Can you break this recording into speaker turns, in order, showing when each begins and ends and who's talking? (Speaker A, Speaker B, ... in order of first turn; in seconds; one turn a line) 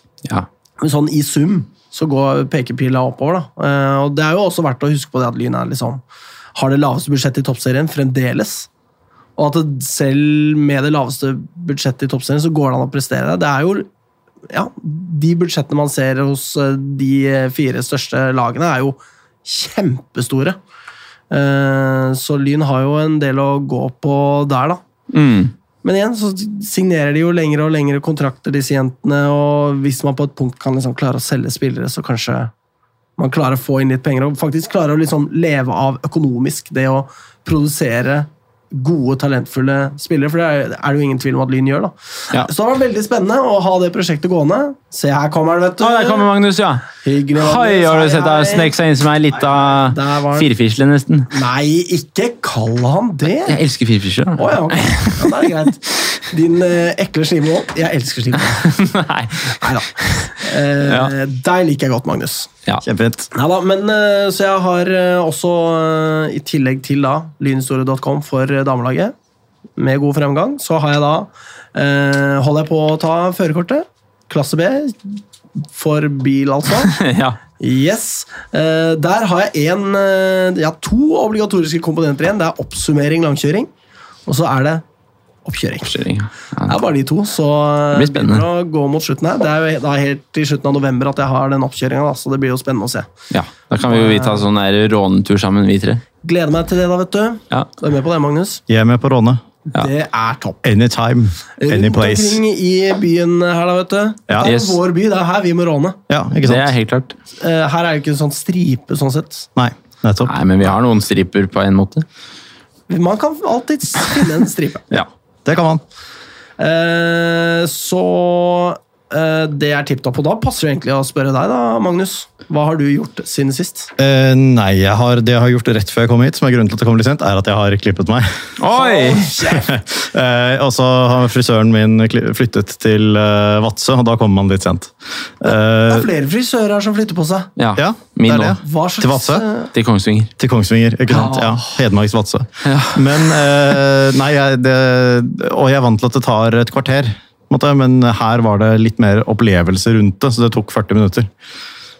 Speaker A: 0.8-6.0
Speaker A: 6.5-8.7
Speaker A: 9.4-13.9
Speaker A: 14.5-20.6
Speaker A: 21.3-24.8
Speaker B: 25.1-25.5
Speaker A: 25.8-32.5
Speaker A: 33.2-46.3
Speaker B: 45.8-51.3
Speaker A: 47.0-48.7
Speaker A: 49.5-50.5
Speaker A: 51.3-53.6
Speaker B: 53.4-55.5
Speaker A: 54.4-58.9
Speaker B: 58.7-60.3
Speaker A: 59.5-62.5
Speaker B: 60.8-61.1
Speaker C: 62.8-63.3
Speaker A: 63.3-69.1
Speaker A: 69.8-77.0
Speaker B: 76.8-77.4
Speaker A: 77.6-83.7
Speaker A: 84.2-84.8
Speaker A: 85.5-86.0
Speaker B: 85.8-86.8
Speaker A: 86.6-93.1
Speaker B: 87.9-88.5
Speaker B: 93.3-96.0
Speaker A: 93.8-94.5
Speaker A: 96.2-98.6
Speaker C: 98.7-99.4
Speaker A: 99.7-100.6
Speaker C: 100.6-102.4
Speaker A: 101.6-106.0
Speaker B: 104.4-104.8
Speaker C: 106.1-106.7
Speaker B: 106.4-107.2
Speaker A: 107.4-109.5
Speaker C: 109.5-110.3
Speaker B: 110.2-112.0
Speaker A: 112.9-115.0
Speaker C: 115.5-115.8
Speaker A: 116.6-123.9
Speaker C: 124.0-128.5
Speaker B: 128.6-129.3
Speaker A: 128.7-129.8
Speaker C: 129.5-136.1
Speaker A: 135.4-137.5
Speaker B: 137.6-138.6
Speaker C: 137.8-139.5
Speaker A: 138.6-139.7
Speaker B: 139.7-140.3
Speaker C: 140.4-151.3
Speaker A: 141.1-141.8
Speaker B: 142.6-143.4